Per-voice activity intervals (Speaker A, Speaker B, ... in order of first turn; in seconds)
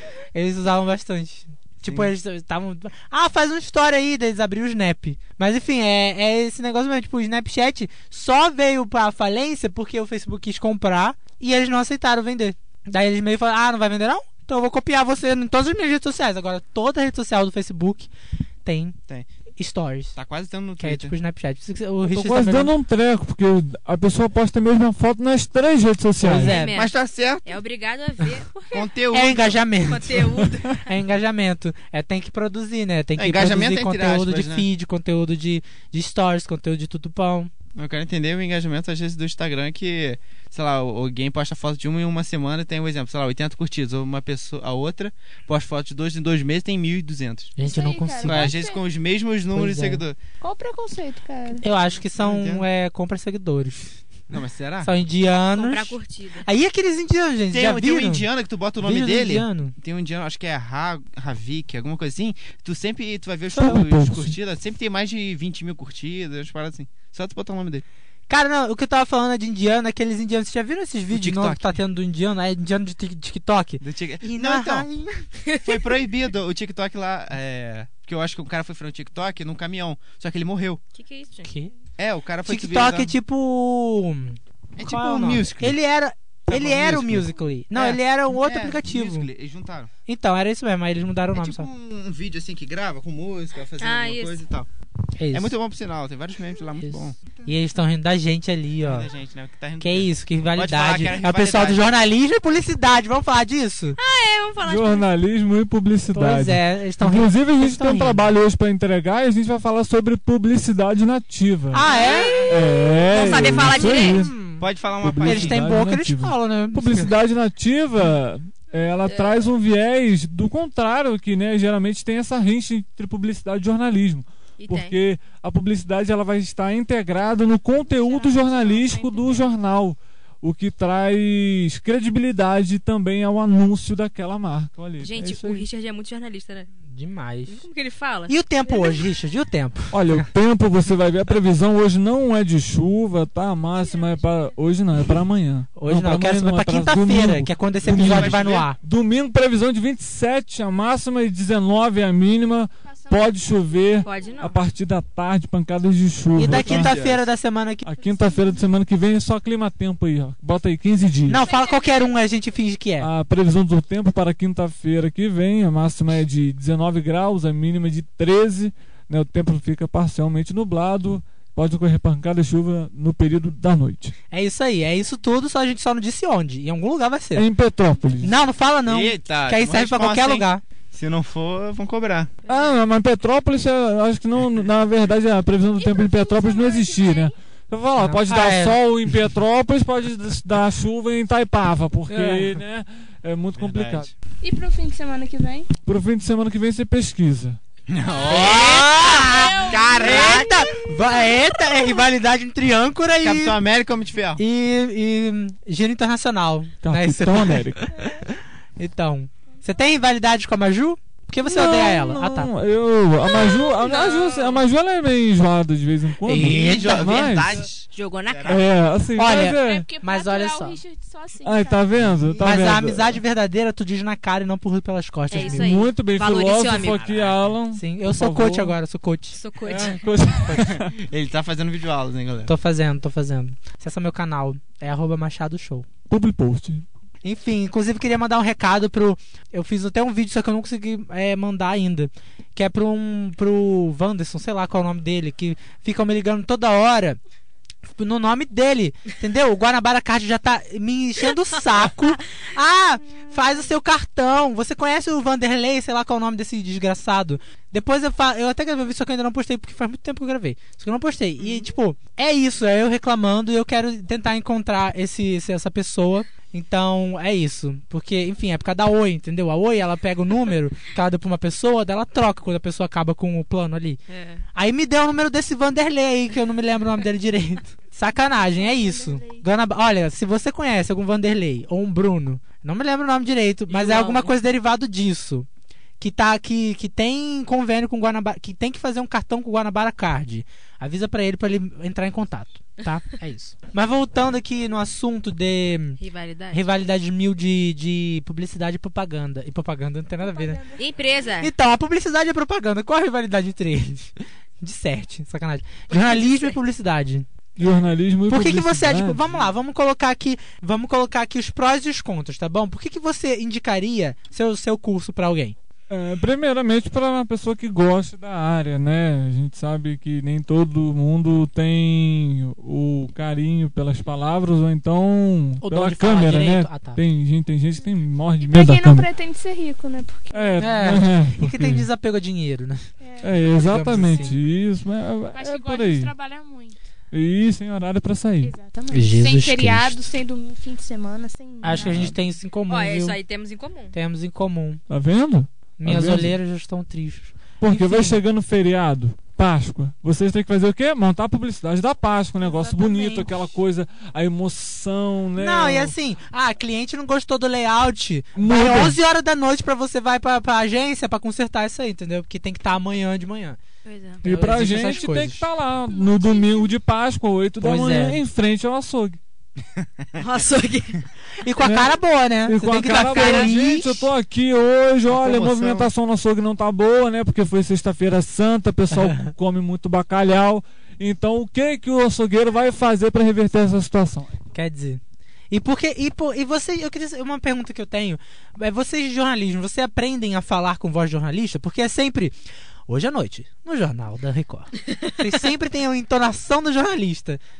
Speaker A: 0.3-18.1, 18.6-19.0, 19.6-20.1, 20.8-22.7, 26.2-26.8, 29.1-37.5, 47.6-48.6, 49.5-50.0, 51.6-54.0, 54.8-58.3, 58.8-59.8, 68.3-75.2, 81.4-81.7, 82.4-89.3, 90.0-91.7, 95.2-95.5, 96.8-99.1, 99.8-104.0, 106.1-108.3, 111.7-112.5, 113.2-114.7, 115.2-117.2, 136.9-137.6, 138.3-140.3, 145.8-148.8, 156.3-157.8, 161.3-163.1, 174.3-177.5, 178.2-180.6, 188.0-189.3, 192.1-192.6, 198.2-203.6, 204.4-212.5, 216.2-217.1, 219.1-220.8, 222.4-225.8, 227.7-229.4, 232.5-235.8, 237.2-247.2, 247.9-274.0, 274.5-285.5, 286.0-300.6, 301.4-307.3, 308.3-315.5, 325.6-327.0, 330.6-332.9, 333.4-334.4, 338.9-340.0, 341.6-343.2, 343.9-344.8, 345.8-348.2, 352.4-353.5, 355.4-363.6, 364.2-365.4, 367.6-368.2, 371.4-374.1, 378.9-379.3, 384.5-397.4
Speaker B: 1.8-2.1, 20.1-21.1, 26.7-27.6, 28.7-29.6, 33.2-34.7, 37.8-47.5, 48.2-50.2, 52.2-52.6, 54.3-54.9, 57.5-67.8, 71.1-71.8, 73.8-74.9, 75.6-80.8, 82.0-83.1, 84.8-85.8, 86.5-89.9, 91.3-94.7, 95.3-97.2, 98.8-101.8, 111.8-113.5, 114.6-115.6, 147.8-148.7, 156.5-157.1, 178.8-182.3, 193.5-194.1, 197.9-200.7, 203.2-204.4, 216.3-218.7, 222.0-222.3, 230.5-232.5, 369.8-370.2, 375.1-375.9
Speaker C: 22.1-26.6, 63.6-64.3, 104.6-111.8, 112.4-114.3, 115.0-135.7, 139.9-157.2, 157.8-161.4, 163.0-174.1, 177.3-178.3, 182.5-194.1, 195.8-197.6, 206.8-207.9, 211.4-217.6, 218.5-219.9, 221.4-223.2, 225.4-228.8, 229.6-230.9, 236.1-236.8, 307.6-309.4, 315.9-329.1, 330.3-331.9, 333.2-336.1, 337.1-338.5, 341.8-342.1, 344.9-346.3, 347.6-355.9, 358.4-359.0, 364.2-369.2, 371.6-384.3
Speaker D: 26.2-26.9, 27.4-28.9, 29.8-30.8, 55.5-56.4, 80.9-81.5, 93.8-94.4, 104.0-105.1, 111.8-114.3, 119.0-119.5, 124.6-125.0, 135.0-136.7, 137.5-138.3, 154.0-154.6, 182.4-182.8, 217.9-218.7, 225.3-227.4, 229.3-230.0, 261.4-261.7, 274.1-274.4, 283.7-284.3, 296.0-296.6, 300.8-301.5, 305.9-306.6, 342.7-343.9, 363.8-364.2, 370.2-371.0, 373.1-373.5
Speaker E: 47.6-48.8, 50.4-51.6, 128.1-129.4, 138.8-139.1, 143.8-144.5, 152.8-154.3, 158.0-158.6, 161.4-162.4, 185.8-187.3, 194.4-195.7, 199.1-200.6, 213.4-214.6, 219.4-222.3, 278.2-279.4, 300.2-300.8, 328.4-330.8, 333.0-334.4, 335.3-336.8, 338.4-342.0, 365.9-366.7